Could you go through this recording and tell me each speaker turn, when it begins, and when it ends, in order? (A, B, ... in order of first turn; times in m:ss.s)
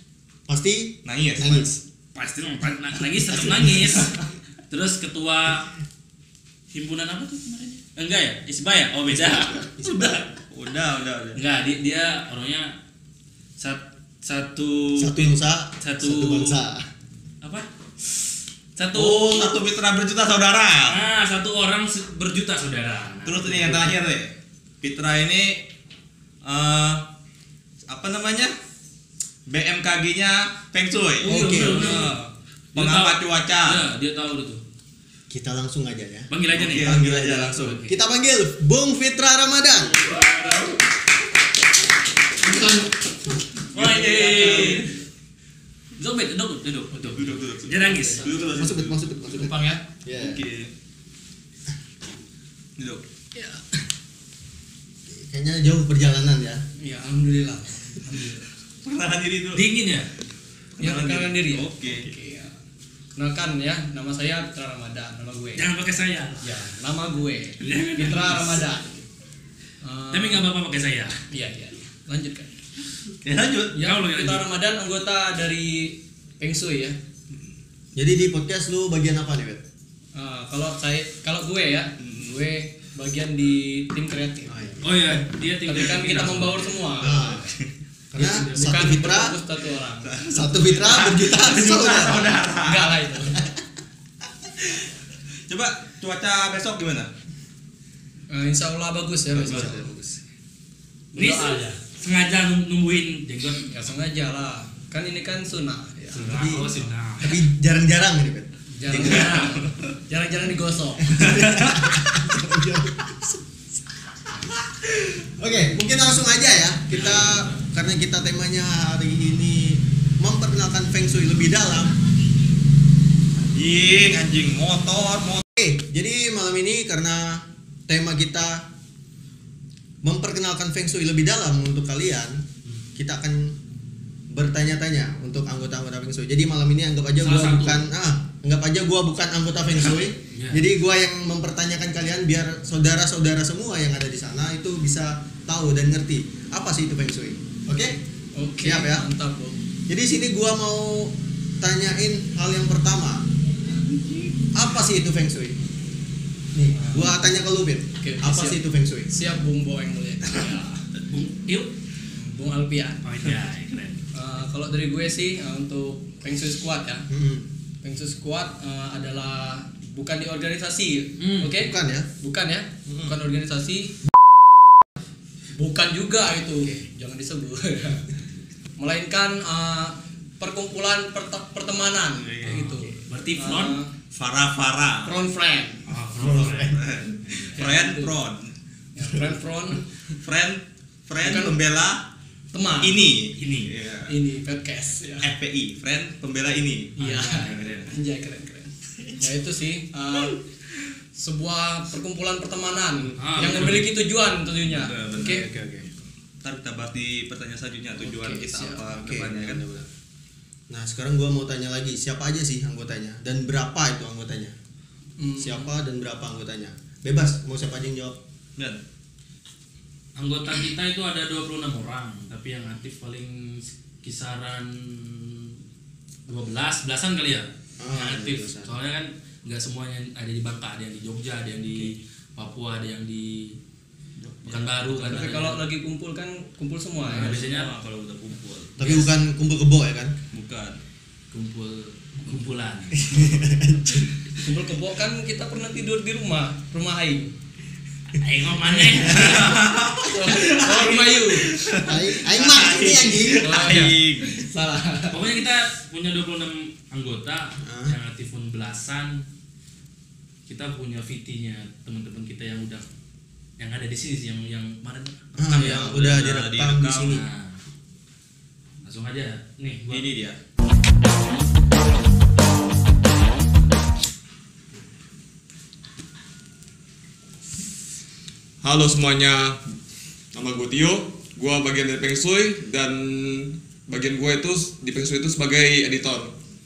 0:00.5-0:01.8 A
0:01.0-0:01.6 B
0:02.1-0:04.1 C
0:03.4-0:03.7 A
0:04.7-0:05.7 C
0:06.7-0:10.2 C
0:09.2-0:10.2 A
0:10.5-0:11.4 B
0:11.4-0:12.7 C
0:13.6-0:15.3 C
0:15.0-0:16.8 A
0:15.8-0:16.6 C
0:18.8-0:19.5 C
0:18.9-0:21.0 B
0:20.8-0:23.9 C
0:23.2-0:24.3 B
0:24.8-0:25.6 B
0:26.4-0:27.0 B
0:27.9-0:28.5 B
0:29.5-0:33.8 B
0:31.2-0:32.1 C
0:31.2-0:32.0 A
0:32.7-0:34.6 C
0:35.3-0:40.0 A
0:36.3-0:38.0 C
0:36.6-0:37.7 B
0:40.0-0:40.8 C
0:42.4-0:43.1 D
0:43.7-0:44.9 C
0:43.7-0:44.8 B
0:44.4-0:44.8 D
0:46.0-0:48.3 C
0:46.9-0:48.5 D
0:47.2-0:49.0 B
0:48.6-0:50.4 A
0:49.3-0:49.8 D
0:50.1-0:50.7 B
0:52.8-0:53.0 B
0:53.3-0:53.8 D
0:55.1-0:56.6 A
0:56.8-0:58.4 D
0:58.0-0:58.4 C
0:58.8-0:59.6 B
0:59.5-1:00.1 C
1:00.8-1:02.1 B
1:00.8-1:02.5 D
1:03.2-1:05.6 D
1:05.6-1:06.5 C
1:06.4-1:09.0 D
1:07.6-1:08.6 C
1:09.8-1:10.5 D
1:10.1-1:11.1 C
1:11.3-1:12.5 D
1:13.2-1:13.8 B
1:13.7-1:17.0 D
1:13.8-1:14.4 C
1:18.0-1:19.6 A
1:20.1-1:24.6 D
1:22.0-1:22.4 B
1:24.4-1:24.8 A
1:24.8-1:27.2 C
1:25.6-1:27.4 D
1:27.0-1:27.4 A
1:28.1-1:29.4 A
1:28.2-1:30.1 D
1:28.2-1:28.6 C
1:30.0-1:32.9 B
1:30.3-1:32.4 A
1:32.6-1:33.5 D
1:35.5-1:37.1 B
1:38.3-1:40.2 D
1:39.4-1:39.8 A
1:39.4-1:39.7 B
1:41.1-1:41.6 D
1:41.1-1:43.7 C
1:43.7-1:46.4 D
1:46.1-1:47.4 C
1:46.3-1:49.5 A
1:48.8-1:51.2 D
1:49.1-1:49.7 B
1:51.1-1:53.4 A
1:51.2-1:51.8 B
1:55.2-2:01.9 A
1:56.9-1:57.2 C
2:03.5-2:05.4 B
2:05.6-2:08.6 A
2:10.0-2:12.4 A
2:12.9-2:13.6 A
2:14.3-2:28.0 A
2:17.2-2:17.8 C
2:20.3-2:20.6 C
2:28.4-2:29.6 D
2:28.6-2:29.1 A
2:29.9-2:33.2 A
2:34.5-2:35.6 A
2:36.5-2:39.1 A
2:36.8-2:37.3 D
2:38.0-2:40.8 D
2:41.1-2:41.7 C
2:42.1-2:43.0 D
2:43.0-2:44.0 C
2:44.1-2:47.0 D
2:47.1-2:47.5 A
2:47.8-2:53.9 D
2:51.2-2:51.5 C
2:51.5-2:52.1 A
2:52.9-2:53.2 B
2:55.5-2:58.2 D
2:56.6-2:56.8 A
2:58.8-3:03.9 D
3:02.2-3:02.7 B
3:02.4-3:03.8 C
3:04.1-3:05.2 B
3:05.0-3:05.8 D
3:05.8-3:07.7 C
3:06.2-3:06.7 A
3:06.2-3:08.5 B
3:07.5-3:08.2 D
3:08.9-3:10.2 D
3:10.2-3:12.0 B
3:11.2-3:11.5 D
3:12.5-3:13.0 D
3:12.8-3:14.1 B
3:13.4-3:13.7 C
3:14.1-3:15.3 D
3:15.2-3:17.7 B
3:17.0-3:20.4 D
3:17.0-3:17.9 C
3:21.1-3:25.4 D
3:23.2-3:23.9 C
3:24.7-3:25.4 B
3:25.2-3:25.9 A
3:26.4-3:29.6 B
3:28.0-3:29.0 D
3:28.9-3:29.9 A
3:30.7-3:34.6 A
3:35.2-3:35.7 D
3:35.4-3:38.2 A
3:40.2-3:45.6 C
3:46.3-3:53.5 C
3:47.8-3:48.7 A
3:54.4-3:55.6 C
3:54.7-3:57.4 D
3:57.0-3:58.8 B
3:57.1-3:57.7 C
3:58.8-4:00.1 A
3:58.8-3:59.1 C
4:00.3-4:00.8 B
4:01.3-4:03.3 C
4:03.0-4:04.1 A
4:04.4-4:07.3 D
4:08.1-4:09.5 C
4:09.0-4:14.4 B
4:10.0-4:11.5 D
4:11.8-4:13.5 A
4:13.4-4:15.2 D
4:15.1-4:19.2 C
4:17.6-4:17.9 A
4:20.5-4:22.8 C
4:23.6-4:25.8 C
4:25.4-4:27.2 A
4:25.5-4:27.2 B
4:27.1-4:27.6 C
4:28.8-4:30.1 C
4:29.9-4:30.4 B
4:38.6-4:39.6 E
4:40.3-4:43.0 E
4:43.9-4:46.3 E